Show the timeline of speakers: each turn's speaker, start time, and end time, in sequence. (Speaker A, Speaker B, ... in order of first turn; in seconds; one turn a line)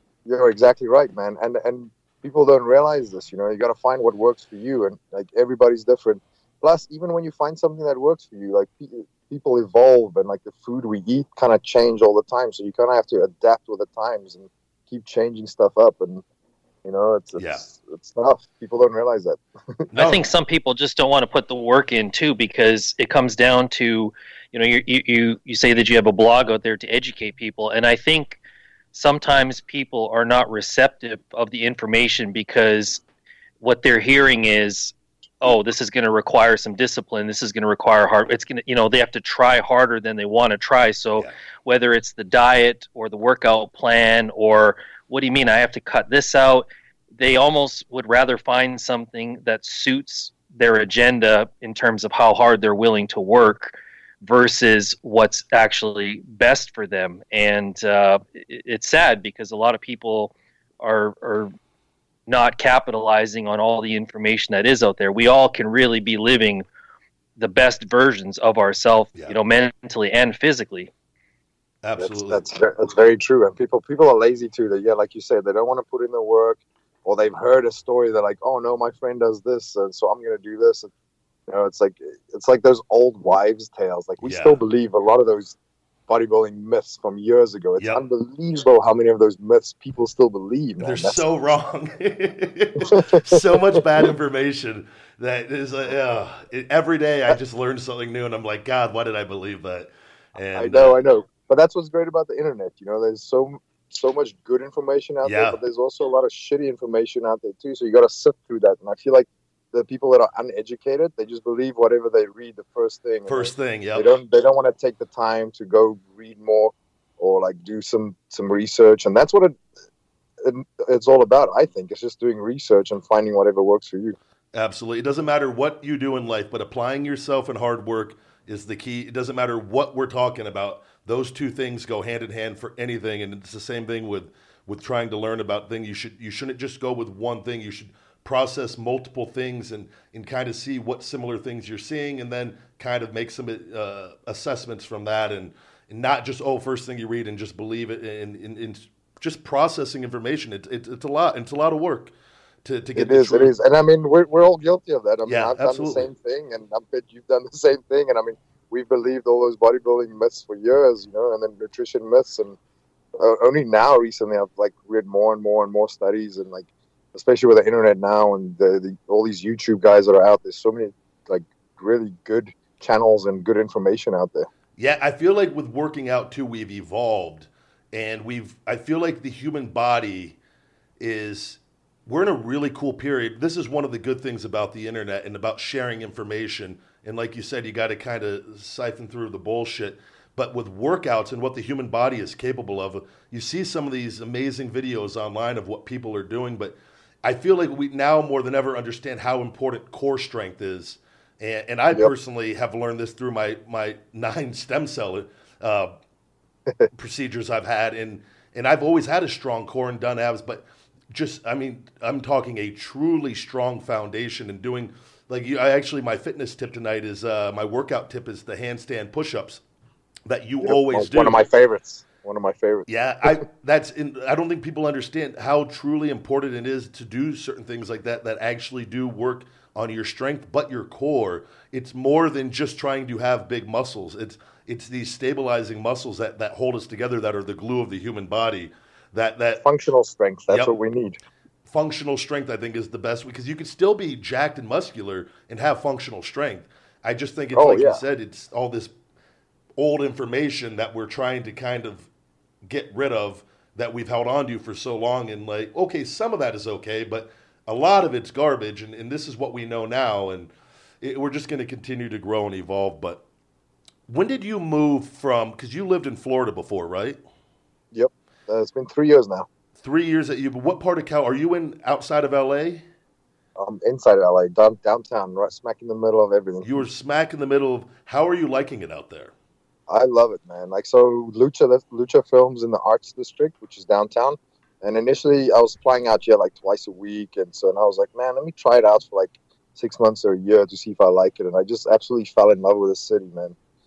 Speaker A: 0.2-16.2
Speaker A: 16.8-19.8
Speaker B: 17.4-17.6
Speaker B: 19.9-20.2
Speaker C: 19.9-28.4
Speaker C: 28.9-33.0
Speaker C: 33.6-46.6
Speaker C: 47.2-61.5
Speaker C: 62.3-66.7
Speaker C: 67.4-70.9
Speaker B: 71.8-72.4
Speaker A: 72.0-80.9
Speaker A: 81.5-85.5
Speaker B: 84.2-84.6
Speaker A: 86.1-91.2
Speaker B: 87.8-88.0
Speaker B: 90.8-101.0
Speaker A: 92.8-93.8
Speaker A: 100.5-119.6
Speaker B: 105.2-105.6
Speaker B: 113.2-114.1
Speaker A: 120.4-124.2
Speaker B: 124.5-153.5
Speaker A: 152.9-162.6
Speaker B: 155.2-156.1
Speaker A: 163.2-174.5
Speaker B: 174.8-180.4
Speaker B: 181.0-205.9
Speaker B: 206.9-219.6
Speaker B: 220.3-221.4
Speaker A: 220.6-223.4
Speaker B: 222.9-239.6
Speaker A: 239.6-241.2
Speaker B: 240.5-240.8
Speaker B: 241.7-248.9
Speaker A: 247.5-248.0
Speaker B: 249.8-252.1
Speaker B: 252.6-263.2
Speaker B: 264.1-267.2
Speaker A: 267.9-269.5
Speaker B: 269.8-272.8
Speaker A: 273.6-276.8
Speaker B: 276.6-279.3
Speaker A: 279.9-293.6